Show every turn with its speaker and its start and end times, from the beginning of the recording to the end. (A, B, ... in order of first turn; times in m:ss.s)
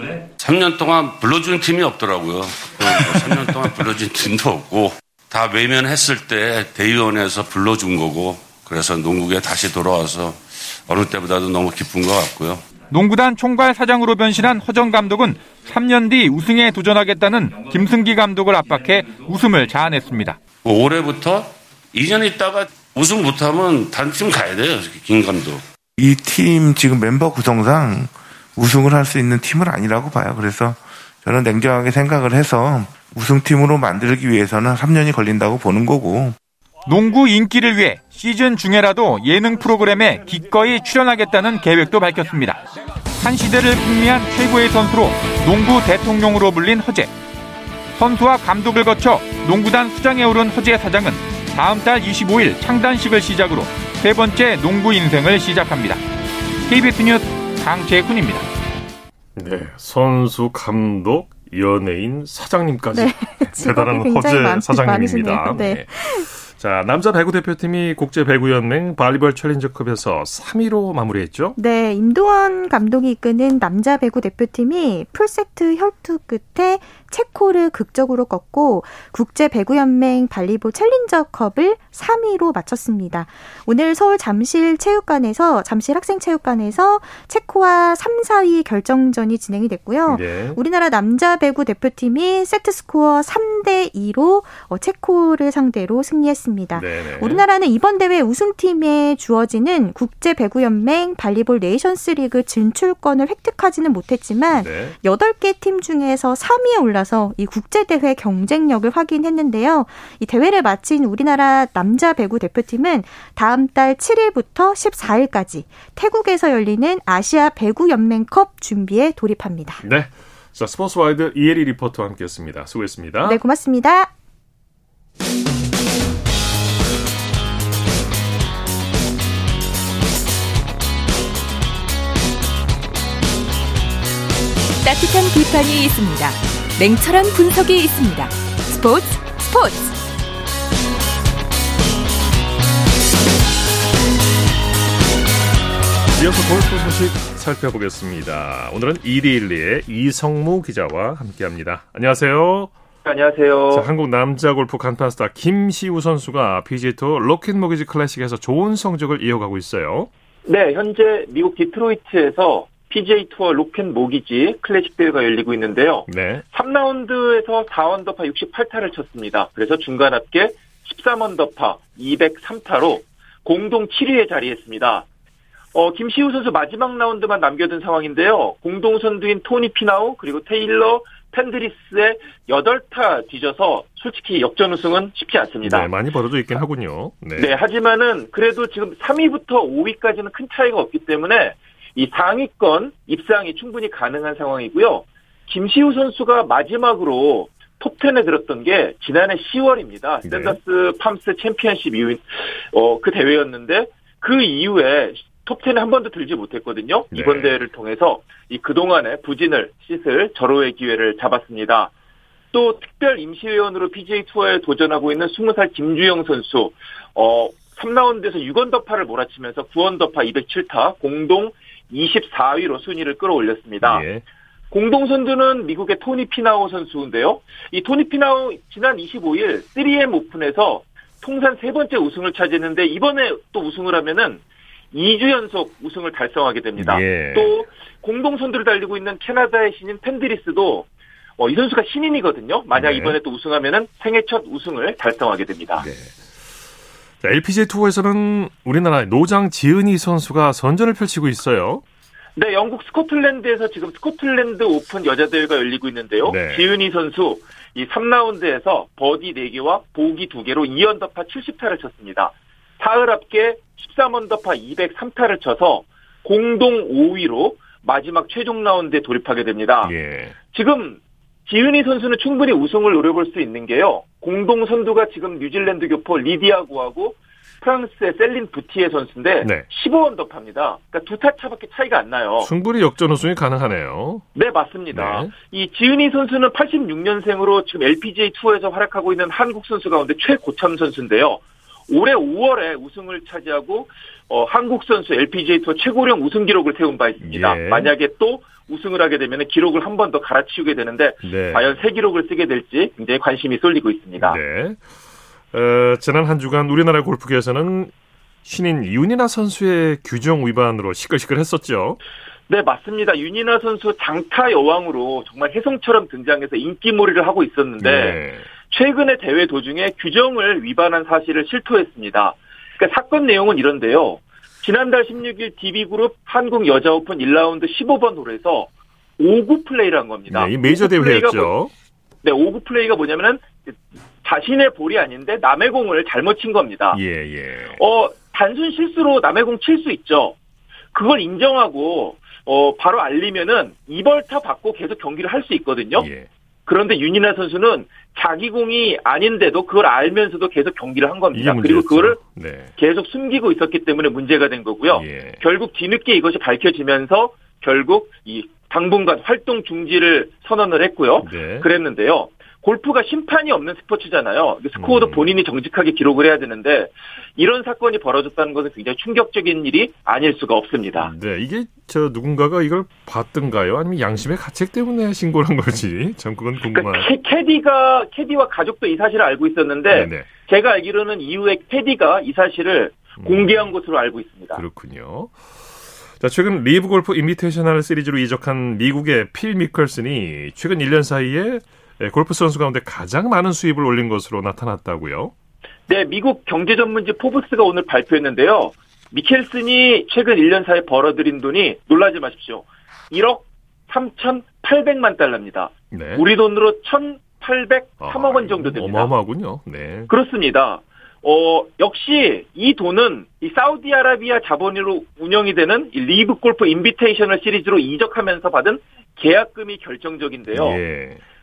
0:00.4-0:12.7 A
0:12.9-0:20.4 B
0:20.6-0:25.6 A
0:26.0-0:36.4 C
0:36.8-0:42.6 B
0:43.2-0:47.1 B
0:48.0-0:56.0 B
0:56.6-0:58.4 B
0:59.3-1:05.9 D
1:02.9-1:06.3 E
1:06.4-1:11.6 D
1:11.6-1:59.8 E
1:30.1-1:30.6 D
1:36.7-1:37.4 D
1:44.5-1:45.0 D
1:59.8-2:03.4 D
2:03.2-2:04.1 E
2:14.8-2:20.0 F
2:26.1-2:32.7 D
2:33.0-2:33.9 G
2:33.7-2:40.1 D
2:40.4-2:55.0 G
2:46.1-2:46.4 D
2:55.7-3:05.9 G
3:05.6-3:07.6 D
3:07.4-3:31.9 G
3:20.2-3:20.6 D
3:27.1-3:27.6 D
3:32.5-3:44.0 G
3:43.8-3:44.2 D
3:44.7-4:00.9 G
3:56.8-3:57.5 D
4:01.4-4:05.8 G
4:02.7-4:03.2 D
4:05.8-4:06.2 D
4:07.2-4:11.8 D
4:12.4-4:29.9 G
4:16.2-4:16.7 D
4:29.8-4:30.4 D
4:30.5-4:42.5 G
4:39.4-4:39.7 D
4:42.4-4:44.3 D
4:44.3-5:04.4 G
4:44.9-4:45.3 D
4:57.2-4:57.9 D
5:01.2-5:01.8 D
5:04.2-5:04.8 D
5:05.5-5:07.9 D
5:08.4-5:12.0 D
5:12.5-5:31.5 G
5:17.8-5:18.5 D
5:30.3-5:31.7 D
5:32.2-5:33.5 G
5:34.2-5:37.0 G
5:36.9-5:37.8 D
5:37.8-5:40.3 G
5:40.9-5:46.1 G
5:45.9-5:46.3 D
5:46.6-5:52.2 G
5:51.3-5:52.7 D
5:52.8-6:11.1 G
5:54.9-5:55.4 D
6:01.2-6:01.7 D
6:04.8-6:05.4 D
6:11.0-6:17.1 D
6:16.7-6:24.6 G
6:19.9-6:20.3 D
6:23.2-6:23.7 D
6:24.6-6:25.4 D
6:26.2-6:35.3 D
6:35.9-6:49.1 G
6:45.9-6:46.3 D
6:48.0-6:50.1 D
6:50.1-7:00.8 G
7:00.5-7:01.2 D